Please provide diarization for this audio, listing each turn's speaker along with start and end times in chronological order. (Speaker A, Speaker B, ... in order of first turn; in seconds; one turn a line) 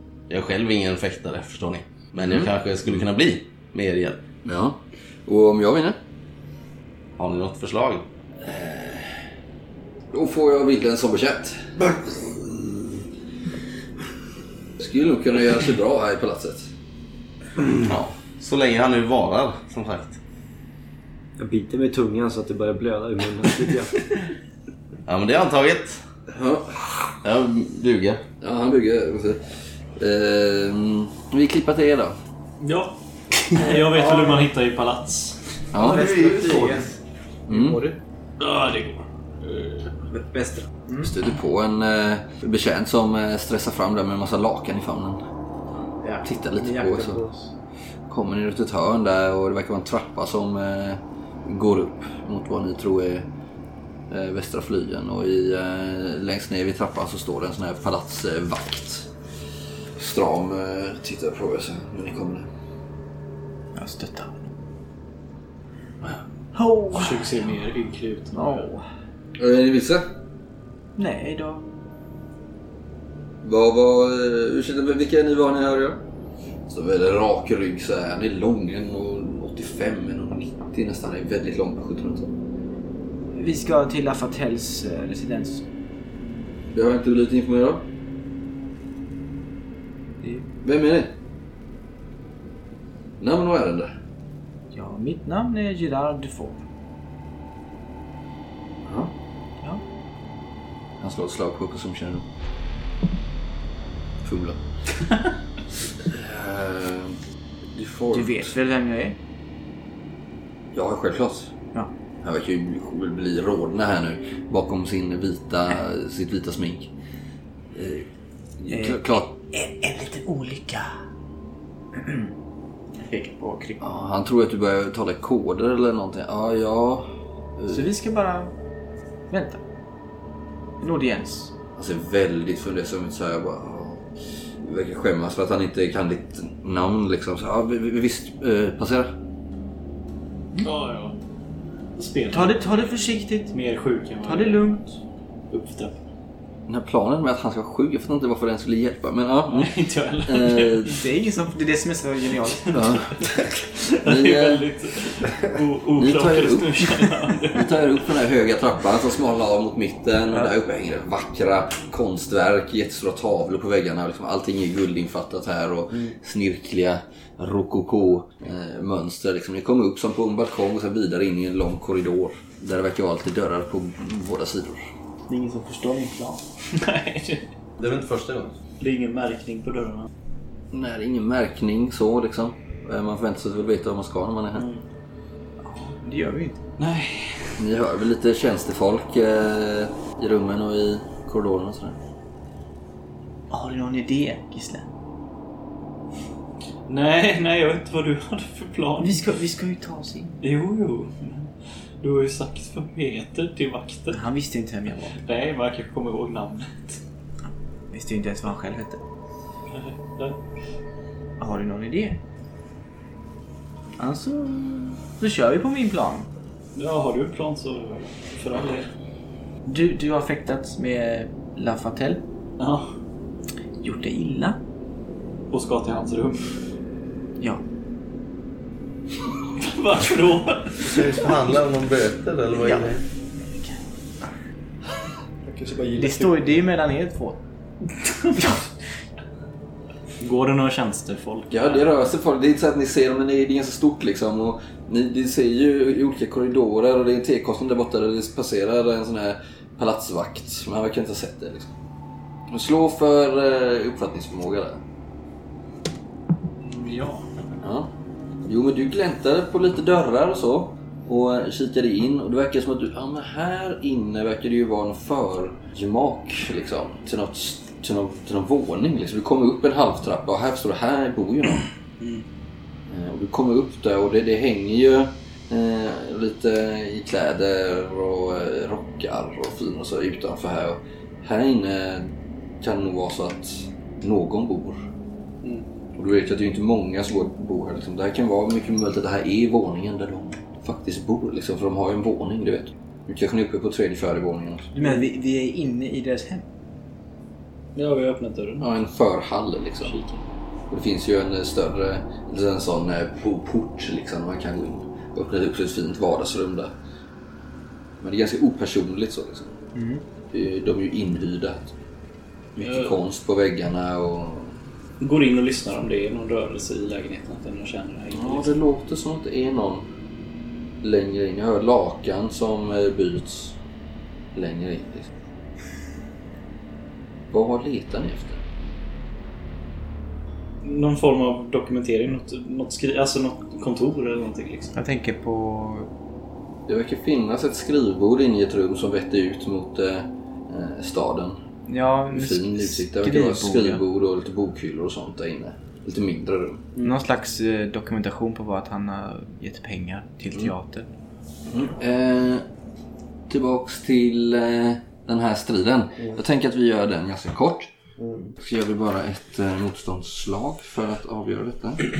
Speaker A: 0.3-4.2
Speaker B: 2.2-2.5
Speaker B: 4.4-6.0
Speaker A: 7.2-8.0
Speaker B: 8.4-9.1
Speaker B: 10.1-12.4
Speaker B: 14.8-16.7
Speaker A: 17.8-20.2
Speaker C: 21.4-24.0
Speaker A: 25.1-26.0
Speaker B: 26.3-27.1
Speaker A: 27.2-28.2
Speaker B: 28.4-29.4
Speaker B: 30.0-32.1
Speaker D: 32.6-35.4
Speaker E: 33.6-34.4
Speaker B: 35.7-36.1
Speaker E: 35.8-36.9
Speaker A: 35.9-36.8
Speaker E: 37.5-38.0
Speaker B: 37.5-37.8
Speaker D: 38.4-39.0
Speaker E: 40.0-41.1
Speaker B: 41.0-45.2
Speaker E: 46.0-47.5
Speaker B: 46.2-47.2
Speaker B: 48.1-53.2
Speaker B: 54.1-59.0
Speaker B: 60.0-62.5
Speaker E: 63.7-64.5
Speaker E: 66.5-67.4
Speaker D: 66.9-68.6
Speaker E: 68.3-68.8
Speaker B: 69.4-70.1
Speaker E: 71.0-71.6
Speaker B: 73.4-76.0
Speaker B: 76.7-82.3
Speaker E: 83.3-85.6
Speaker B: 86.7-87.8
Speaker E: 90.2-90.5
Speaker B: 90.6-91.1
Speaker B: 93.2-93.9
Speaker E: 94.7-96.6
Speaker B: 98.8-99.1
Speaker B: 101.0-102.2
Speaker B: 104.2-104.6
Speaker B: 106.0-107.2
Speaker B: 107.7-108.5
Speaker E: 108.1-109.2
Speaker B: 110.7-111.5
Speaker B: 112.2-116.9
Speaker B: 117.7-118.1
Speaker B: 118.6-119.3
Speaker E: 118.7-120.9
Speaker E: 122.0-122.3
Speaker E: 123.0-123.8
Speaker B: 123.8-127.1
Speaker B: 127.6-127.9
Speaker E: 127.7-128.5
Speaker E: 129.3-129.6
Speaker E: 130.8-131.5
Speaker B: 131.8-134.0
Speaker B: 134.6-139.1
Speaker D: 140.6-141.2
Speaker D: 142.0-142.9
Speaker E: 142.3-143.5
Speaker D: 143.5-144.9
Speaker E: 144.2-144.8
Speaker D: 145.5-146.0
Speaker B: 146.7-149.7
Speaker D: 149.5-151.0
Speaker B: 150.2-150.9
Speaker E: 150.9-152.8
Speaker D: 152.6-157.8
Speaker B: 152.7-153.3
Speaker B: 154.0-154.6
Speaker B: 156.0-156.8
Speaker B: 157.5-174.8
Speaker E: 175.3-176.4
Speaker D: 176.7-177.5
Speaker A: 177.8-178.5
Speaker D: 178.8-180.1
Speaker B: 180.7-184.7
Speaker D: 184.6-184.8
Speaker E: 185.6-186.6
Speaker D: 186.8-187.6
Speaker B: 187.6-191.9
Speaker E: 193.5-194.9
Speaker D: 196.9-199.2
Speaker E: 199.0-200.4
Speaker D: 200.4-201.5
Speaker D: 202.0-204.2
Speaker E: 204.1-205.1
Speaker D: 205.1-207.0
Speaker E: 207.9-209.0
Speaker D: 209.7-210.4
Speaker E: 211.4-212.2
Speaker E: 214.0-216.3
Speaker D: 216.7-218.9
Speaker E: 219.7-222.2
Speaker D: 222.6-222.9
Speaker E: 223.8-224.6
Speaker D: 225.5-226.4
Speaker D: 229.6-231.2
Speaker A: 230.8-233.0
Speaker E: 232.5-233.8
Speaker C: 235.4-236.6
Speaker E: 235.9-237.4
Speaker E: 238.3-238.6
Speaker D: 240.2-241.9
Speaker B: 241.5-251.7
Speaker B: 252.5-254.8
Speaker D: 256.6-257.3
Speaker B: 257.6-257.9
Speaker B: 258.4-271.6
Speaker B: 272.9-282.1
Speaker B: 282.6-284.8
Speaker B: 285.9-294.7
Speaker E: 294.7-296.4
Speaker D: 297.7-298.7
Speaker B: 298.6-299.9
Speaker D: 299.8-300.2
Speaker B: 300.7-306.7
Speaker B: 308.0-309.5
Speaker E: 309.7-310.0
Speaker B: 310.3-311.7
Speaker B: 312.6-314.6
Speaker D: 312.6-312.9
Speaker D: 315.0-318.6
Speaker B: 318.1-319.9
Speaker B: 320.8-323.6
Speaker B: 324.3-325.1
Speaker B: 327.3-328.4
Speaker D: 330.6-334.8
Speaker E: 334.8-335.9
Speaker B: 336.7-341.4
Speaker E: 341.7-343.8
Speaker B: 342.1-346.6
Speaker E: 346.8-350.9
Speaker B: 351.5-352.4
Speaker B: 353.3-357.7
Speaker C: 358.0-358.3
Speaker B: 358.4-361.8